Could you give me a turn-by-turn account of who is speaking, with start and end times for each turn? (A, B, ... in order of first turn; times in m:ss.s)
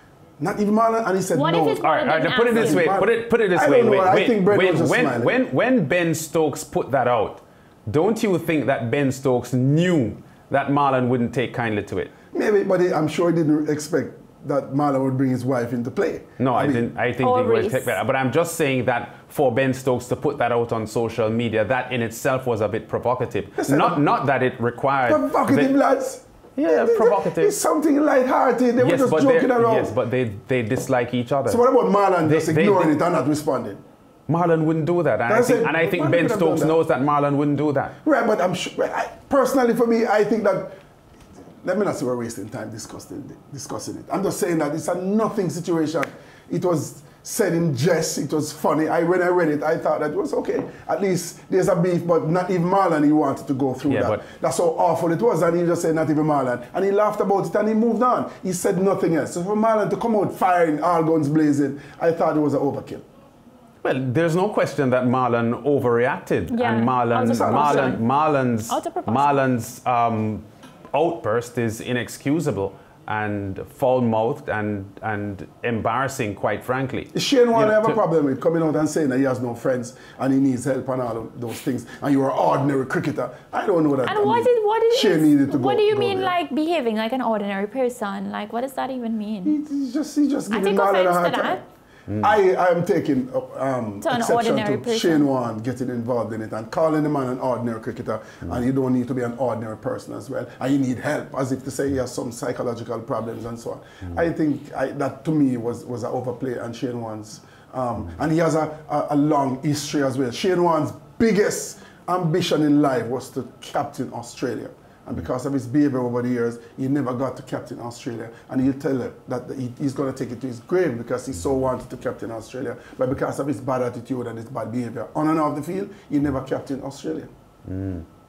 0:00.4-0:01.8 A
0:01.3-0:02.9 B
0:01.8-0:12.1 C
0:02.5-0:05.3 A
0:12.3-0:16.9 A
0:16.4-0:25.7 C
0:17.2-0:18.0 B
0:23.6-0:24.1 A
0:25.0-0:26.2 A
0:26.6-0:27.6 C
0:26.8-0:29.9 A
0:28.8-0:31.6 C
0:31.5-0:33.8 A
0:32.2-0:32.9 C
0:34.3-0:37.9 C
0:35.3-0:36.8 A
0:38.0-0:40.8 A
0:41.6-1:03.0 A
0:53.9-0:54.2 C
1:03.8-1:18.0 C
1:06.5-1:08.0 B
1:07.2-1:08.0 A
1:08.7-1:09.4 B
1:17.1-1:26.3 A
1:24.0-1:29.5 B
1:29.4-1:31.6 A
1:30.5-1:31.6 B
1:32.1-1:32.4 C
1:32.2-2:07.3 A
1:34.0-1:35.3 B
2:07.6-2:08.1 C